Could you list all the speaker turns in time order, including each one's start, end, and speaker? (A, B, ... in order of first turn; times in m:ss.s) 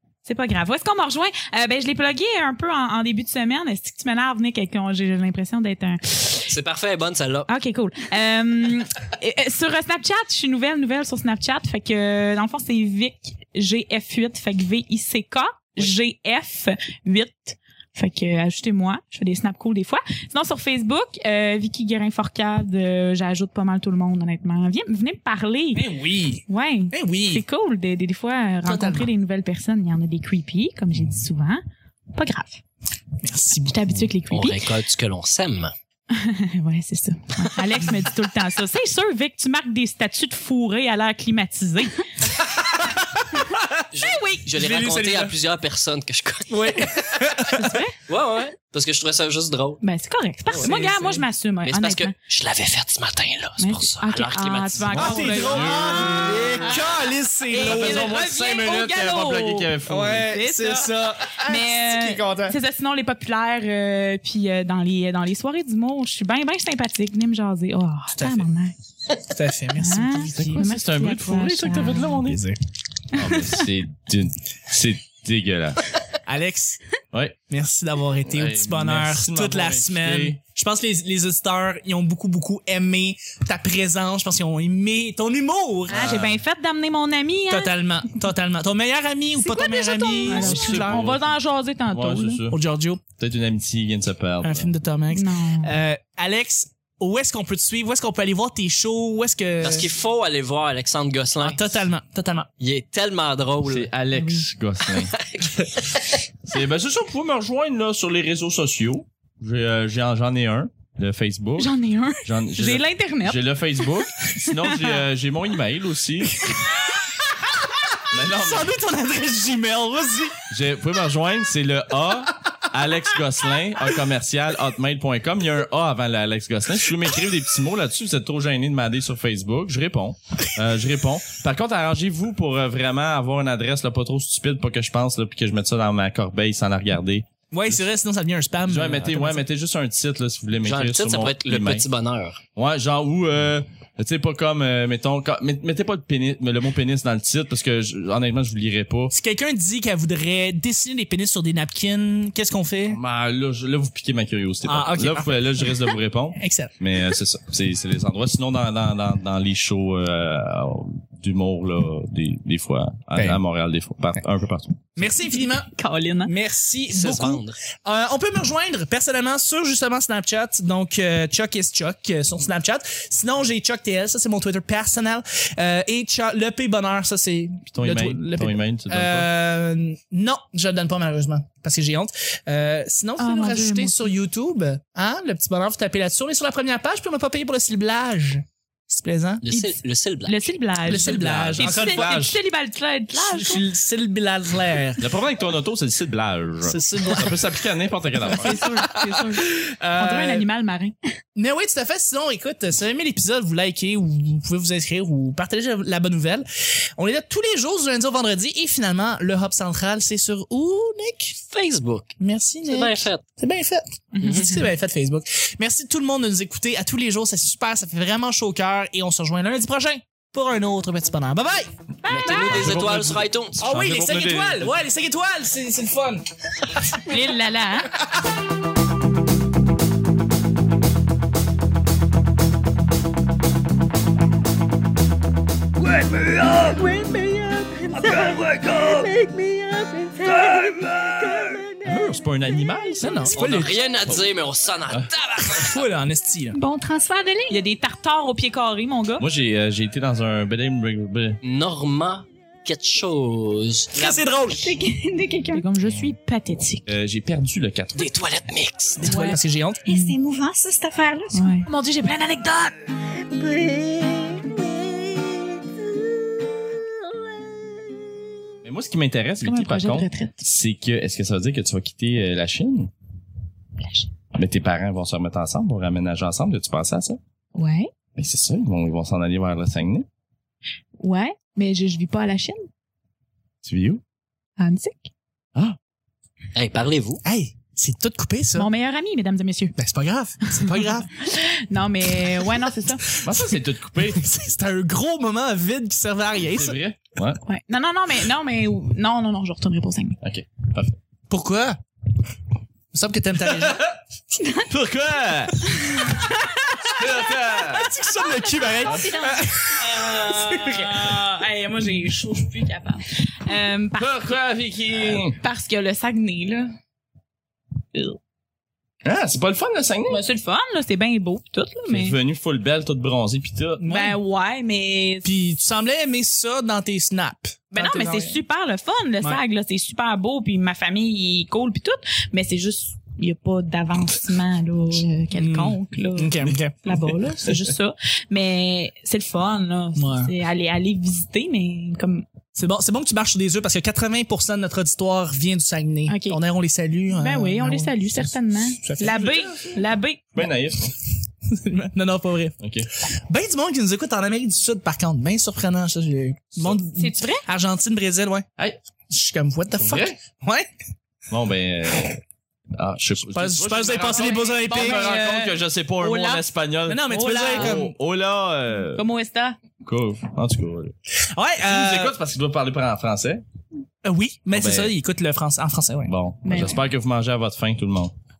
0:00.3-0:06.5 A
0:06.5-0:07.5 B
0:07.5-0:25.9 A
0:25.8-0:27.4 C
0:26.5-0:31.6 A
0:28.6-0:29.1 C
0:32.1-0:32.6 A
0:33.2-0:34.1 C
0:33.7-0:34.7 A
0:34.3-0:35.7 B
0:36.1-0:42.1 A
0:42.5-0:43.7 C
0:43.9-0:47.0 B
0:44.0-0:44.5 A
0:44.6-0:45.4 C
0:46.5-0:47.8 C
0:47.5-0:48.0 A
0:48.1-0:49.8 B
0:49.8-0:52.2 A
0:50.5-0:51.2 C
0:51.6-0:55.4 B
0:53.6-0:56.8 A
0:54.9-0:56.8 D
0:54.9-0:58.2 C
0:57.5-1:08.7 A
0:57.6-1:00.3 D
0:59.9-1:02.6 C
1:08.1-1:08.5 C
1:09.2-1:10.6 C
1:09.8-1:12.2 A
1:10.4-1:12.4 D
1:12.2-1:12.6 C
1:13.1-1:15.9 D
1:13.2-1:13.6 A
1:16.3-1:16.8 C
1:17.5-1:26.2 C
1:18.3-1:20.4 D
1:25.9-1:27.7 A
1:25.9-1:26.4 D
1:27.5-1:31.0 C
1:29.5-1:32.4 A
1:29.7-1:30.5 E
1:30.3-1:31.4 D
1:31.9-1:32.6 D
1:32.5-1:33.0 C
1:33.2-1:34.7 D
1:34.4-1:39.9 C
1:35.1-1:35.7 A
1:39.6-1:41.9 B
1:41.4-1:42.5 C
1:42.6-1:43.9 B
1:43.6-1:45.2 D
1:44.1-1:44.5 A
1:45.1-1:46.1 B
1:46.4-1:51.7 D
1:51.6-1:53.4 A
1:52.2-1:56.5 D
1:56.5-1:57.2 C
1:57.7-2:00.4 C
1:58.1-1:58.7 D
2:00.5-2:17.8 D
2:17.5-2:19.4 C
2:18.7-2:21.9 D
2:20.6-2:22.4 B
2:22.6-2:29.1 D
2:29.1-2:33.0 C
2:32.9-2:45.1 D
2:34.6-2:35.7 C
2:36.4-2:36.7 C
2:43.2-2:43.4 C
2:45.0-2:45.7 C
2:45.4-2:46.3 A
2:46.2-3:09.4 C
2:46.9-2:47.6 B
2:57.7-2:59.3 D
3:03.2-3:04.1 A
3:09.4-3:10.6 B
3:09.5-3:13.6 A
3:10.8-3:12.3 C
3:11.0-3:12.4 D
3:13.1-3:15.0 C
3:15.0-3:18.9 D
3:16.6-3:17.5 C
3:18.2-3:20.5 C
3:18.3-3:20.9 A
3:21.4-3:26.5 C
3:27.0-3:31.4 C
3:31.5-3:33.2 B
3:32.2-3:41.7 C
3:34.1-3:34.7 A
3:34.2-3:34.5 B
3:42.0-3:42.8 A
3:42.1-3:43.7 B
3:42.3-3:44.7 D
3:43.6-3:47.2 C
3:47.1-3:47.9 A
3:56.0-4:01.6 C
4:01.8-4:04.3 D
4:03.0-4:03.8 C
4:03.3-4:05.8 B
4:05.5-4:06.6 C
4:06.5-4:07.6 E
4:07.5-4:09.2 A
4:09.2-4:11.4 D
4:11.4-4:14.2 B
4:14.0-4:14.8 C
4:14.4-4:15.7 E
4:15.5-4:16.9 A
4:16.9-4:18.1 D
4:18.0-4:19.1 B
4:19.0-4:19.9 C
4:19.0-4:20.2 A
4:19.9-4:21.7 E
4:21.3-4:22.9 A
4:23.4-4:24.3 E
4:28.6-4:32.9 D
4:29.4-4:30.4 A
4:33.8-4:34.1 A
4:34.3-4:37.2 D
4:37.6-4:37.9 A
4:38.2-4:40.1 D
4:41.0-4:42.7 A
4:43.6-4:44.0 D
4:44.6-4:45.1 A
4:46.6-4:47.2 B
4:47.2-4:48.7 C
4:48.6-4:49.8 A
4:49.8-4:51.2 C
4:50.5-4:53.2 A
4:52.3-4:56.8 C
4:53.2-4:54.3 D
4:56.5-4:57.4 D
4:57.4-5:00.2 A
5:00.2-5:01.0 D
5:01.3-5:01.8 C
5:02.9-5:03.8 C
5:03.5-5:03.9 D
5:04.3-5:04.7 E
5:04.7-5:05.7 D
5:05.7-5:07.9 A
5:06.9-5:08.0 D
5:07.7-5:11.1 C
5:08.2-5:09.4 E
5:08.8-5:09.2 D
5:08.9-5:14.3 A
5:14.0-5:15.4 D
5:15.2-5:16.8 A
5:19.0-5:20.2 D
5:20.1-5:22.2 A
5:21.9-5:23.8 D
5:23.8-5:24.2 C
5:23.8-5:25.3 A
5:25.2-5:28.4 C
5:27.7-5:42.3 A
5:35.3-5:37.1 C
5:40.0-5:40.3 C
5:42.6-5:49.3 C
5:46.1-5:46.4 A
5:47.1-5:50.3 A
5:49.0-5:49.8 D
5:50.4-5:51.0 D
5:51.5-5:52.6 C
5:52.6-5:52.9 D
5:53.1-5:58.5 C
5:56.9-5:57.5 A
5:59.1-6:00.7 C
5:59.8-6:00.2 D
6:01.3-6:02.2 D
6:02.7-6:09.0 D
6:03.2-6:05.2 C
6:04.1-6:06.4 A
6:06.9-6:07.9 C
6:07.1-6:07.8 A
6:08.9-6:09.6 A
6:09.8-6:10.9 D
6:11.3-6:12.2 C
6:11.6-6:13.4 D
6:14.0-6:16.1 C
6:14.5-6:14.9 D
6:16.1-6:18.1 D
6:16.4-6:16.8 A